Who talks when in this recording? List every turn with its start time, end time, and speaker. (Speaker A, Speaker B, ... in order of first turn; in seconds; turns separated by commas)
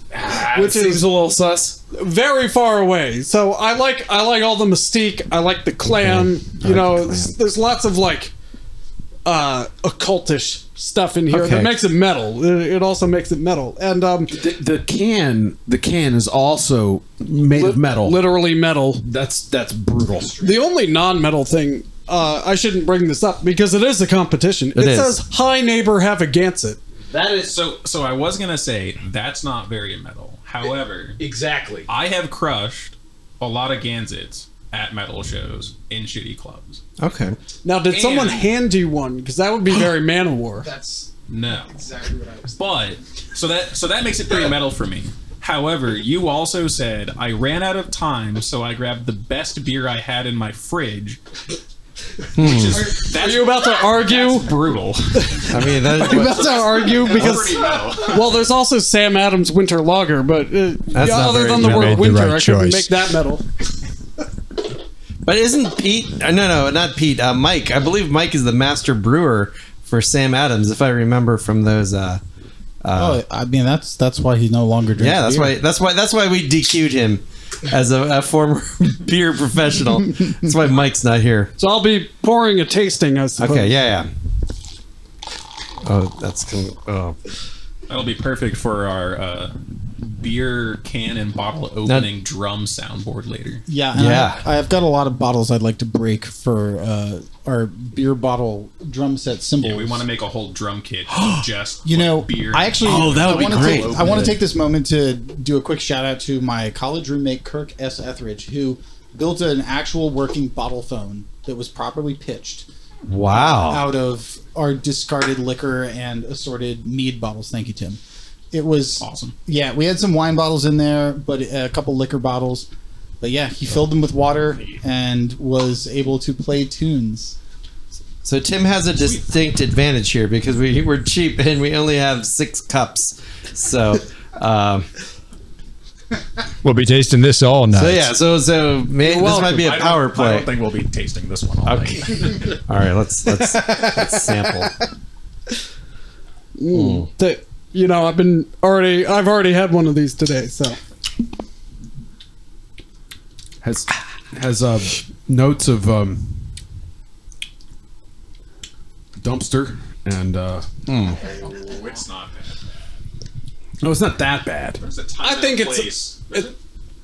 Speaker A: 0.1-1.8, Speaker B: 0.5-1.1, Speaker B: 1.9-8.3, Speaker C: 6.0-7.3, Speaker A: 6.7-7.0, Speaker B: 9.2-14.4, Speaker C: 11.3-11.8, Speaker A: 14.3-18.2, Speaker B: 17.5-19.0, Speaker A: 19.0-20.5, Speaker B: 20.4-26.8, Speaker C: 24.7-25.1, Speaker A: 27.1-27.6, Speaker D: 27.4-31.2, Speaker A: 31.2-31.9, Speaker D: 31.9-36.8, Speaker C: 37.0-37.4, Speaker B: 37.6-40.7, Speaker D: 37.9-38.5, Speaker E: 40.6-41.1, Speaker D: 41.3-41.7, Speaker E: 41.7-42.6, Speaker D: 42.5-51.2, Speaker C: 52.4-53.0, Speaker D: 52.4-55.5, Speaker E: 52.8-53.0, Speaker B: 53.0-54.5, Speaker B: 55.1-63.4, Speaker C: 55.4-57.2, Speaker D: 56.3-58.3, Speaker C: 60.9-62.0, Speaker F: 61.5-62.9, Speaker C: 65.2-72.2, Speaker C: 72.8-73.2, Speaker E: 72.9-75.6, Speaker C: 75.0-81.5, Speaker B: 81.6-83.7, Speaker C: 83.4-84.1, Speaker C: 85.8-87.2, Speaker D: 87.9-93.6, Speaker E: 93.7-100.1, Speaker C: 93.9-94.4, Speaker D: 99.6-104.4, Speaker C: 101.2-101.4, Speaker E: 101.8-112.7, Speaker C: 102.8-104.3, Speaker C: 113.1-113.9, Speaker E: 113.3-118.0, Speaker E: 118.5-122.7, Speaker D: 119.0-119.3, Speaker E: 123.2-127.3, Speaker C: 128.2-134.9, Speaker D: 129.0-129.2, Speaker F: 136.6-138.1, Speaker C: 137.7-140.6, Speaker D: 139.1-142.6, Speaker C: 141.7-144.7, Speaker B: 146.6-150.8, Speaker C: 146.7-147.1, Speaker A: 153.6-156.3, Speaker A: 159.2-161.2, Speaker D: 161.1-162.6, Speaker A: 163.8-164.8, Speaker D: 164.8-166.6, Speaker B: 165.2-166.5